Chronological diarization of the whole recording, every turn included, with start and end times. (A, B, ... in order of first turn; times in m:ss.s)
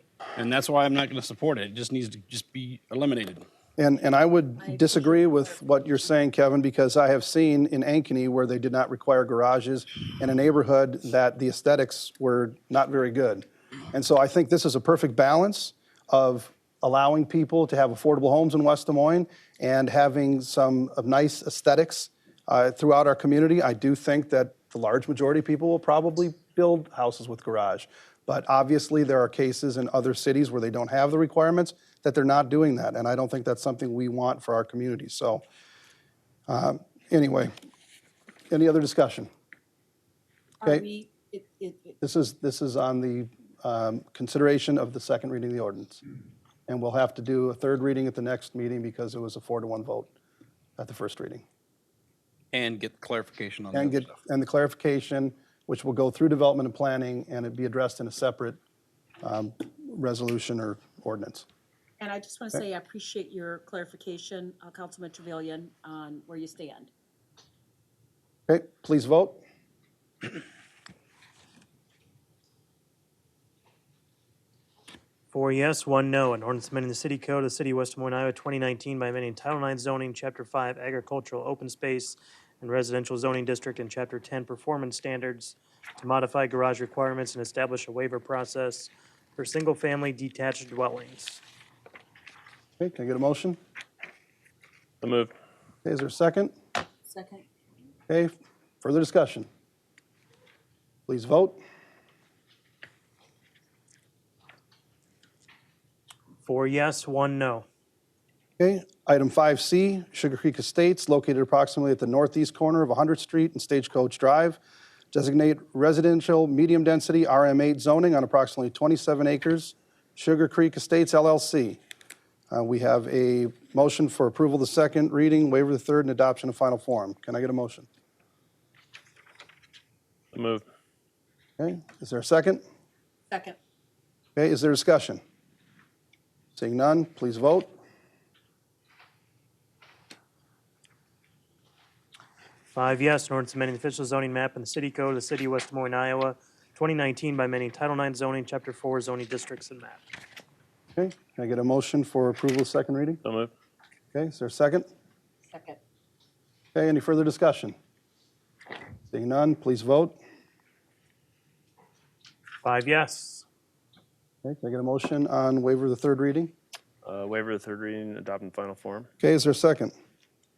0:00.4-0:03.4 A
0:03.8-0:35.4 B
0:04.6-0:06.1 C
0:36.5-0:37.5 B
0:38.5-0:39.3 B
0:40.6-0:42.0 C
0:42.0-0:46.0 B
0:46.7-0:50.1 B
0:50.8-0:51.4 B
0:52.5-0:54.1 A
0:53.7-0:58.6 B
0:59.2-1:01.4 B
1:02.0-1:06.9 C
1:08.5-1:09.4 B
1:15.3-1:31.4 D
1:32.8-1:33.6 B
1:35.0-1:35.3 E
1:35.8-1:36.5 B
1:37.1-1:37.4 C
1:38.1-1:39.5 B
1:41.1-1:41.6 B
1:46.4-1:47.6 D
1:48.6-1:54.6 B
1:55.1-2:01.8 B
2:02.5-2:07.9 B
2:10.3-2:10.6 E
2:11.6-2:12.6 B
2:13.3-2:13.6 C
2:14.4-2:15.2 B
2:16.6-2:17.7 B
2:22.7-2:30.0 D
2:31.0-2:33.2 B
2:33.2-2:33.5 E
2:34.1-2:34.9 B
2:35.5-2:35.8 C
2:36.8-2:37.8 B
2:39.1-2:40.2 B
2:42.6-2:43.4 D
2:44.4-2:46.5 B
2:47.0-2:49.1 E
2:49.2-2:49.9 B